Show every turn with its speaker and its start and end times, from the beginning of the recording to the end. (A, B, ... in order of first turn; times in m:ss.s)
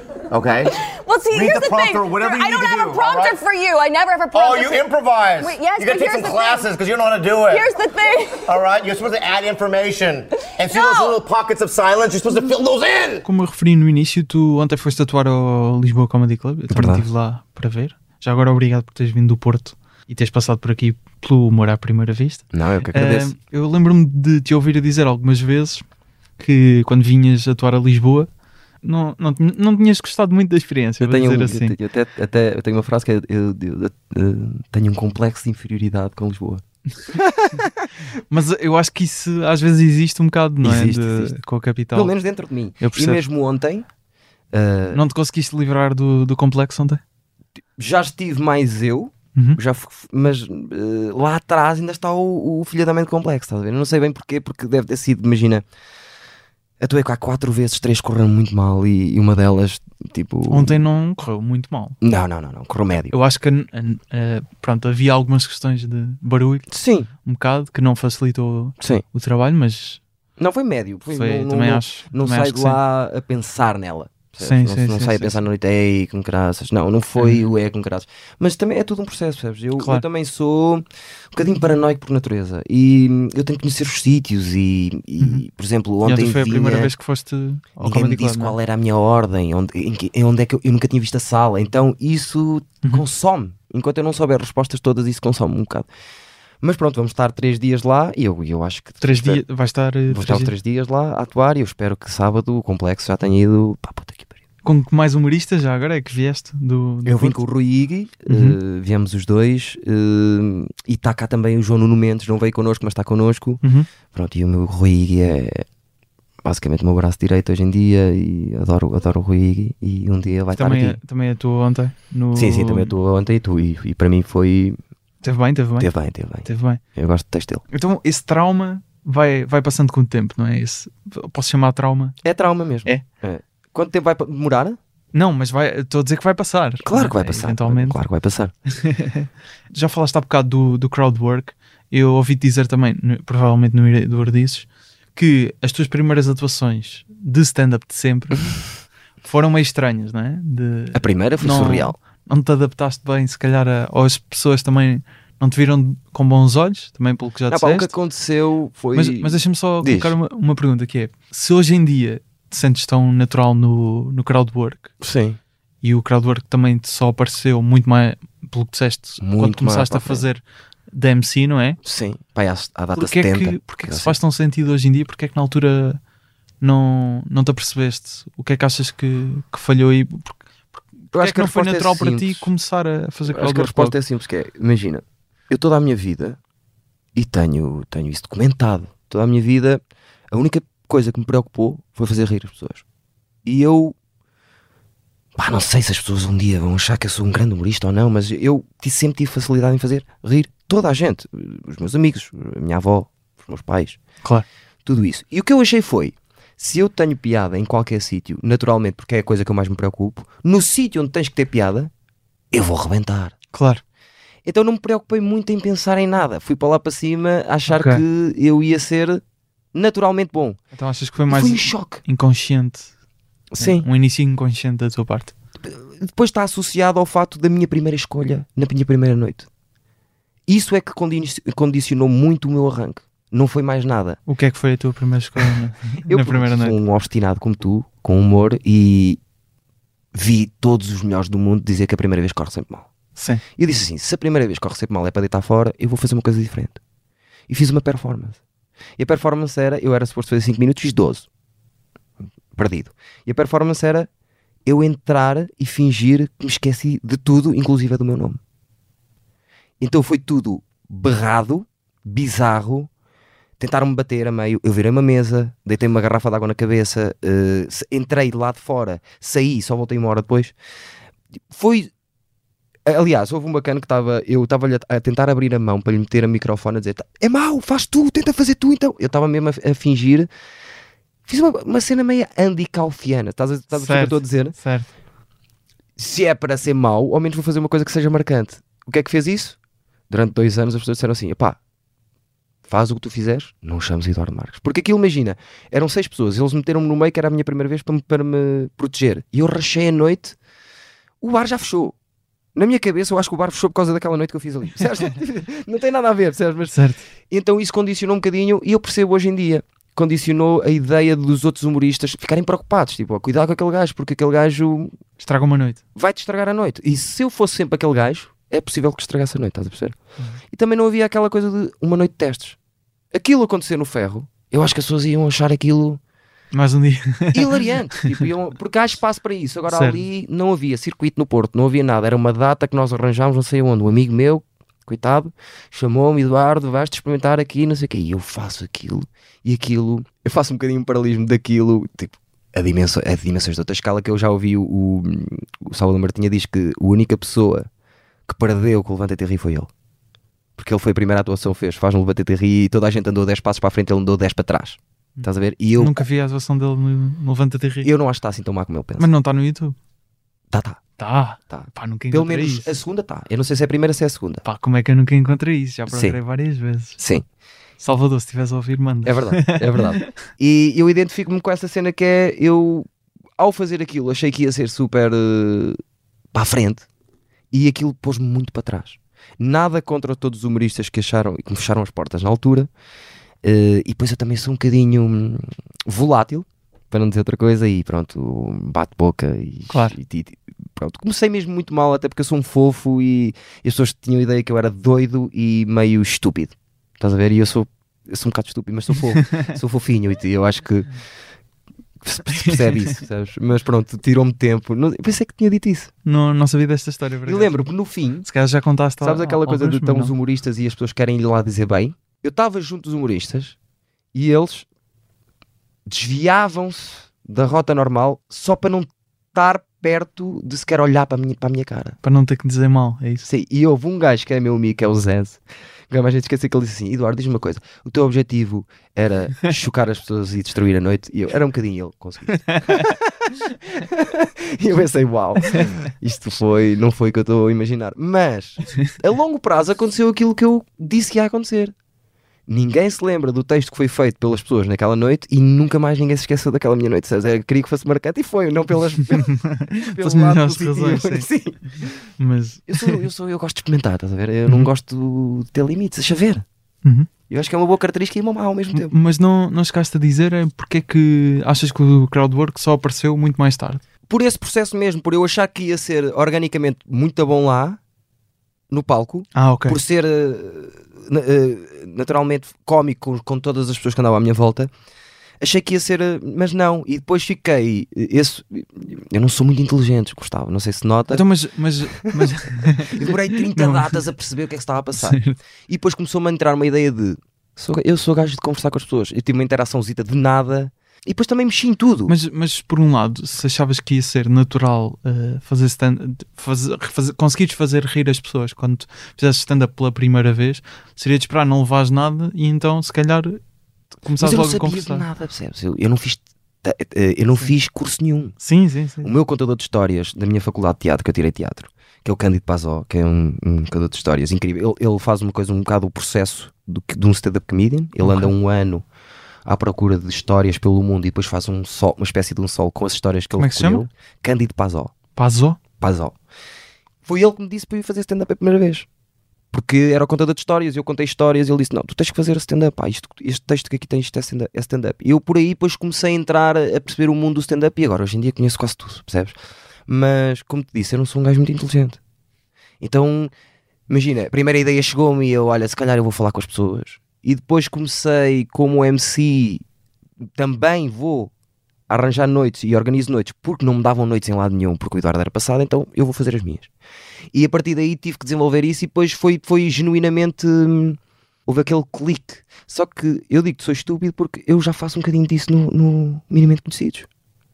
0:00.3-0:03.4 A
0:00.7-0:04.8 B
0:04.3-0:07.7 A
0:05.4-0:06.7 B
0:07.5-0:08.6 B
0:08.4-0:13.2 A
0:10.6-0:11.2 B
0:13.2-0:25.8 C
0:16.7-0:17.0 D
0:22.5-0:23.3 D
0:26.4-0:28.3 C
0:28.8-0:31.8 C
0:31.0-0:37.9 D
0:38.3-0:42.1 C
0:40.6-0:41.3 D
0:41.9-0:43.8 D
0:42.8-0:43.2 C
0:44.5-0:45.0 D
0:44.9-0:47.0 C
0:47.8-0:55.6 D
0:56.8-1:00.8 D
1:00.5-1:02.0 C
1:02.0-1:03.2 D
1:03.1-1:06.7 C
1:06.7-1:07.1 D
1:07.2-1:10.0 C
1:08.8-1:09.0 D
1:10.4-1:26.9 D
1:11.1-1:12.8 C
1:14.4-1:15.4 C
1:17.2-1:17.5 C
1:19.8-1:20.0 C
1:26.0-1:28.6 C
1:27.8-1:35.9 D
1:36.6-1:39.4 D
1:39.0-1:40.5 C
1:40.1-1:44.3 D
1:44.6-1:47.4 C
1:47.0-1:53.6 D
1:48.3-1:48.6 C
1:53.6-1:53.9 C
1:54.1-1:55.6 D
1:56.4-2:01.0 D
2:00.5-2:02.9 C
2:02.3-2:04.8 D
2:05.2-2:05.9 C
2:05.8-2:07.6 D
2:06.4-2:06.8 C
2:07.7-2:12.2 C
2:12.2-2:14.8 D
2:15.1-2:18.0 C
2:16.8-2:18.5 D
2:18.7-2:28.6 C
2:29.2-2:37.9 C
2:30.9-2:32.0 D
2:37.5-2:40.2 D
2:38.9-2:44.9 C
2:45.0-2:45.4 D
2:45.8-2:51.8 C
2:49.2-2:50.2 D
2:51.8-2:54.2 D
2:52.9-2:56.0 C
2:56.6-3:04.0 C
3:01.1-3:02.5 D
3:03.2-3:06.4 D
3:07.1-3:12.8 D
3:13.4-3:14.0 D
3:15.4-3:24.0 D
3:24.8-3:31.9 D
3:32.5-3:33.3 D
3:33.5-3:33.8 C
3:34.4-3:39.2 D
3:37.7-3:38.0 C
3:39.7-3:40.6 D
3:40.7-3:42.9 C
3:41.3-3:42.0 D
3:43.5-3:43.8 D
3:43.6-3:45.3 C
3:45.6-3:49.5 D
3:50.5-3:54.2 D
3:54.3-3:56.8 C
3:55.4-3:59.2 D
4:00.1-4:02.9 D
4:03.2-4:03.4 C
4:03.6-4:06.8 D
4:07.5-4:08.4 D
4:09.0-4:11.3 D
4:12.5-4:14.1 D
4:14.6-4:18.4 D
4:19.8-4:22.9 D
4:23.6-4:30.5 D
4:31.5-4:31.9 D
4:32.8-4:40.3 D
4:41.3-4:44.5 D
4:43.7-4:44.9 C
4:46.0-4:49.6 D
4:50.1-4:51.6 D
4:52.6-5:00.4 D
5:01.2-5:01.9 D
5:02.5-5:06.8 D
5:06.7-5:07.0 C
5:07.3-5:14.9 D
5:15.2-5:15.8 C
5:16.0-5:20.0 D
5:20.5-5:22.6 D
5:23.1-5:26.0 D
5:26.5-5:28.2 C
5:27.3-5:47.7 D
5:29.7-5:30.0 C
5:48.3-5:49.7 D
5:50.6-5:56.0 D
5:55.2-5:57.9 C
5:57.8-5:59.1 D
5:59.0-5:59.8 C
6:00.5-6:00.8 D
6:01.0-6:02.7 C
6:01.5-6:04.4 D
6:04.4-6:07.0 C
6:05.9-6:06.2 D
6:07.0-6:07.2 D
6:07.8-6:10.1 C
6:09.0-6:15.8 D
6:16.3-6:16.8 D
6:17.5-6:22.7 D
6:23.4-6:40.9 D
6:29.7-6:30.0 C
6:42.0-6:45.9 D
6:42.4-6:42.9 C
6:46.0-6:47.5 C
6:47.2-6:48.3 D
6:48.2-6:50.1 C
6:49.0-6:53.6 D
6:54.1-6:54.6 D
6:55.8-7:02.0 D
7:02.0-7:03.2 C
7:03.2-7:21.7 D
7:12.5-7:12.9 C
7:22.5-7:32.0 D
7:29.2-7:31.3 C
7:32.2-7:33.0 C
7:32.7-7:36.4 D
7:36.8-7:37.1 C
7:37.3-7:38.9 D
7:38.7-7:43.8 C
7:44.1-7:47.8 D
7:48.7-7:54.7 D
7:49.3-7:49.8 C
7:55.4-8:01.2 D
8:01.1-8:04.0 C
8:02.0-8:12.1 D
8:05.0-8:05.4 C
8:12.1-8:23.4 C
8:24.0-8:25.1 C
8:24.2-8:28.4 D
8:28.4-8:29.1 C
8:29.0-8:38.8 D
8:38.0-8:38.3 C
8:39.4-8:44.9 D
8:43.4-8:43.8 C
8:45.2-8:45.6 C
8:45.8-8:46.2 D
8:47.0-8:48.8 D
8:49.5-9:02.0 D
9:02.8-9:03.3 D
9:03.9-9:09.6 D
9:10.4-9:11.3 D
9:11.9-9:16.7 D
9:17.3-9:27.1 D